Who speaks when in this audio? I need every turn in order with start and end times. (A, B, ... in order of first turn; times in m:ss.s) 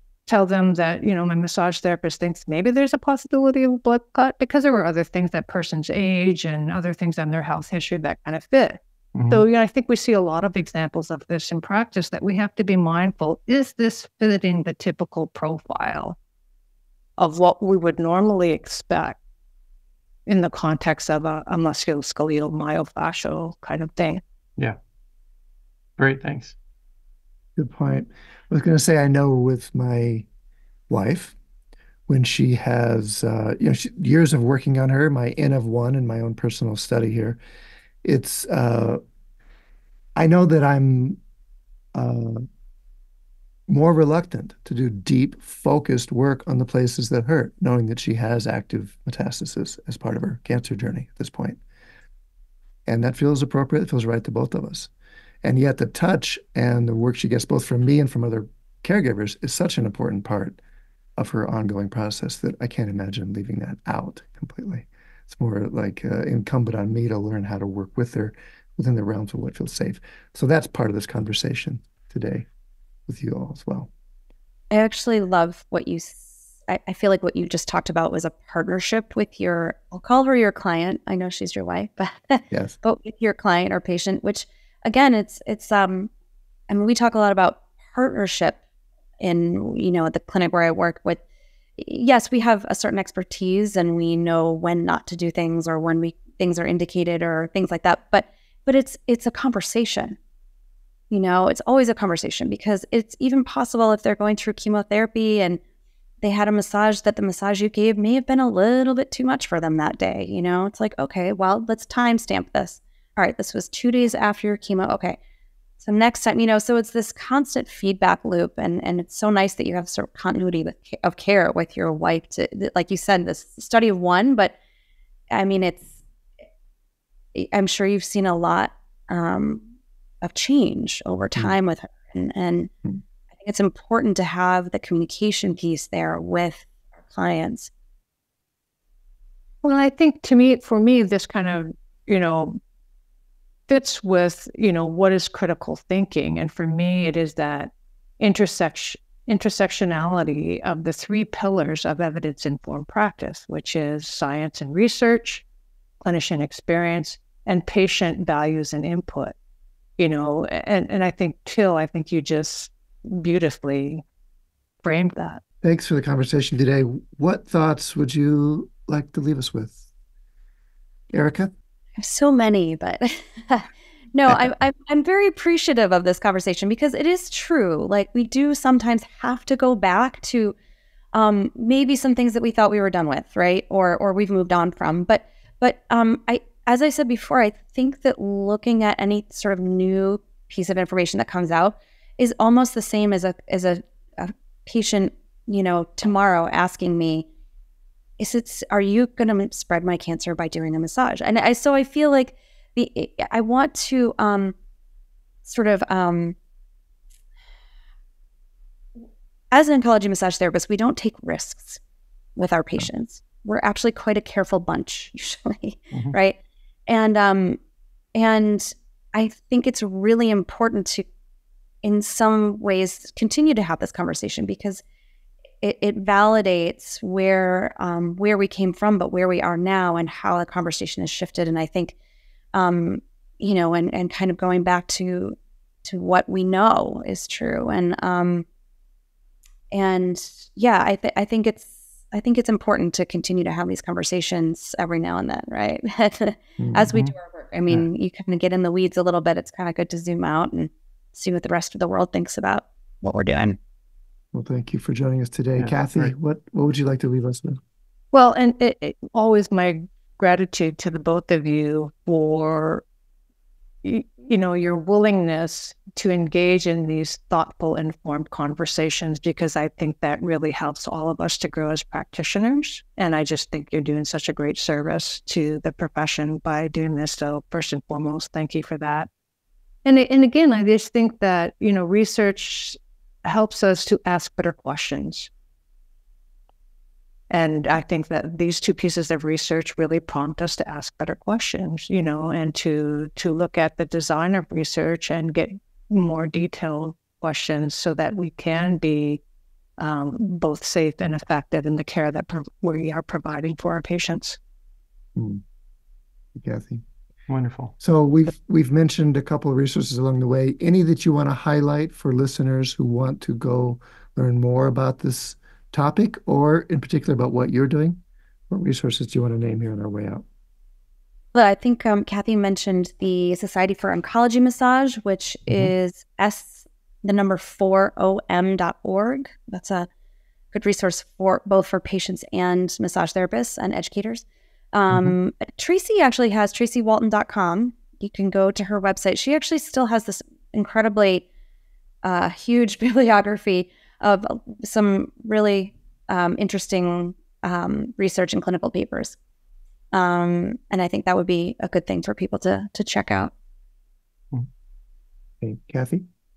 0:00.3-0:16.2 A
0:09.1-0:09.4 B
0:17.2-0:19.2 A
0:20.2-0:24.2 A
0:26.0-0:26.5 B
0:27.6-0:30.3 C
0:30.9-0:31.3 C
0:32.1-0:37.4 C
0:38.0-0:39.0 C
0:40.2-0:41.2 C
0:41.9-0:42.4 C
0:43.7-0:51.6 C
0:52.8-0:54.9 C
0:55.4-1:00.6 C
1:01.2-1:12.4 C
1:13.1-1:13.9 C
1:14.7-1:26.1 D
1:26.7-1:28.6 D
1:29.2-1:31.2 D
1:31.8-1:40.2 D
1:41.1-1:45.6 D
1:46.2-1:55.2 D
1:55.8-2:04.5 D
2:05.3-2:05.9 D
2:07.3-2:09.6 D
2:10.2-2:12.7 D
2:13.3-2:17.7 D
2:19.6-2:22.6 A
2:23.7-2:35.4 A
2:36.0-2:39.3 A
2:40.0-2:44.0 A
2:44.8-2:45.4 A
2:45.6-2:49.8 C
2:51.1-2:51.5 C
2:52.0-3:00.5 D
3:01.1-3:17.3 D
3:18.2-3:24.6 D
3:25.4-3:26.4 D
3:29.5-3:31.8 D
3:32.4-3:37.6 D
3:38.1-3:41.0 D
3:41.8-3:44.8 D
3:45.6-3:51.9 D
3:52.5-3:58.4 D
3:59.7-4:13.6 D
4:06.6-4:07.0 C
4:14.3-4:17.6 C
4:15.6-4:16.1 B
4:18.1-4:22.8 A
4:23.8-4:39.1 A
4:39.8-4:45.3 A
4:47.3-4:59.2 A
4:59.8-5:04.4 A
5:05.2-5:05.4 C
5:06.3-5:06.8 C
5:07.3-5:07.7 B
5:07.8-5:20.2 C
5:21.3-5:29.9 D
5:30.5-5:41.2 D
5:42.0-5:49.2 D
5:49.9-5:53.3 D
5:55.4-5:56.0 C